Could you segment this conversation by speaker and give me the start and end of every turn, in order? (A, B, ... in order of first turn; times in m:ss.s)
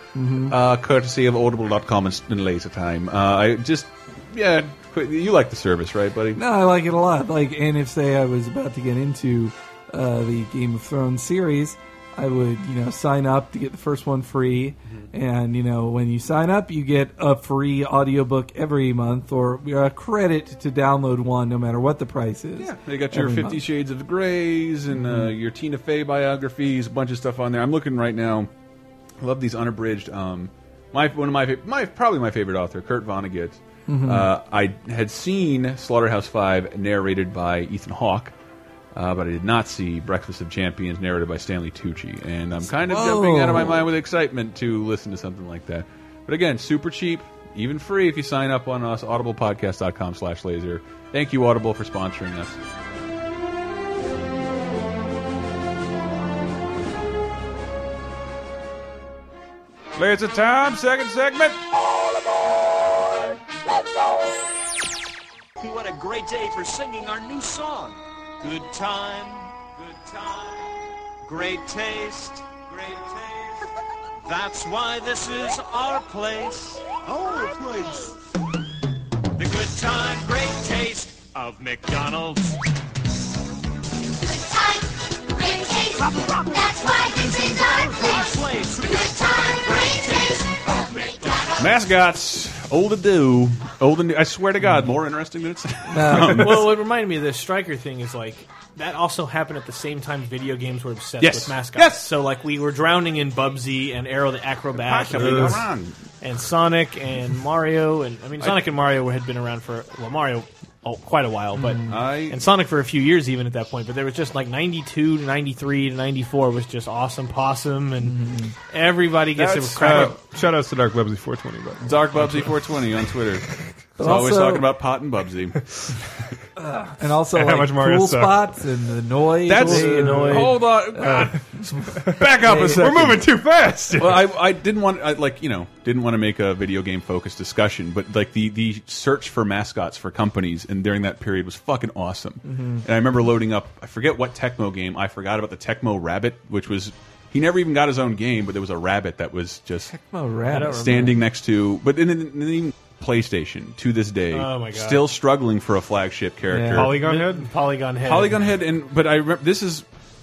0:00.1-0:00.6 A
0:00.5-0:06.4 B
0:06.4-0:23.6 A
0:22.6-0:28.5 B
0:24.9-0:25.3 A
0:29.2-0:38.3 B
0:33.9-0:34.3 A
0:38.9-0:52.6 B
0:42.8-0:43.9 A
1:00.0-1:01.6 B
1:05.6-1:10.6 C
1:11.2-1:13.6 C
1:14.2-1:18.1 C
1:19.4-1:22.6 C
1:24.2-1:26.0 D
1:25.9-1:31.6 C
1:26.8-1:27.6 D
1:31.2-1:31.4 D
1:31.6-1:36.7 B
1:35.9-1:36.6 A
1:36.3-1:45.6 E
1:41.2-1:42.0 B
1:44.7-1:46.0 B
1:45.2-1:45.6 F
1:46.2-1:58.2 E
1:51.6-1:52.0 A
1:51.8-1:52.4 B
1:58.0-1:58.5 A
1:58.7-2:00.2 E
1:59.4-2:00.2 B
1:59.7-2:02.5 F
2:01.8-2:03.4 B
2:04.0-2:04.7 A
2:04.0-2:05.6 B
2:06.6-2:11.3 A
2:07.3-2:08.5 F
2:09.4-2:11.4 B
2:09.6-2:10.5 E
2:10.1-2:10.4 F
2:11.0-2:11.4 F
2:12.0-2:13.3 A
2:12.0-2:14.3 F
2:12.0-2:13.2 B
2:13.9-2:29.9 B
2:22.4-2:22.8 A
2:29.9-2:31.2 A
2:30.5-2:31.1 E
2:30.6-2:37.0 B
2:34.3-2:35.0 E
2:36.5-2:36.9 A
2:36.7-2:37.5 F
2:37.0-2:38.4 E
2:38.0-2:39.8 B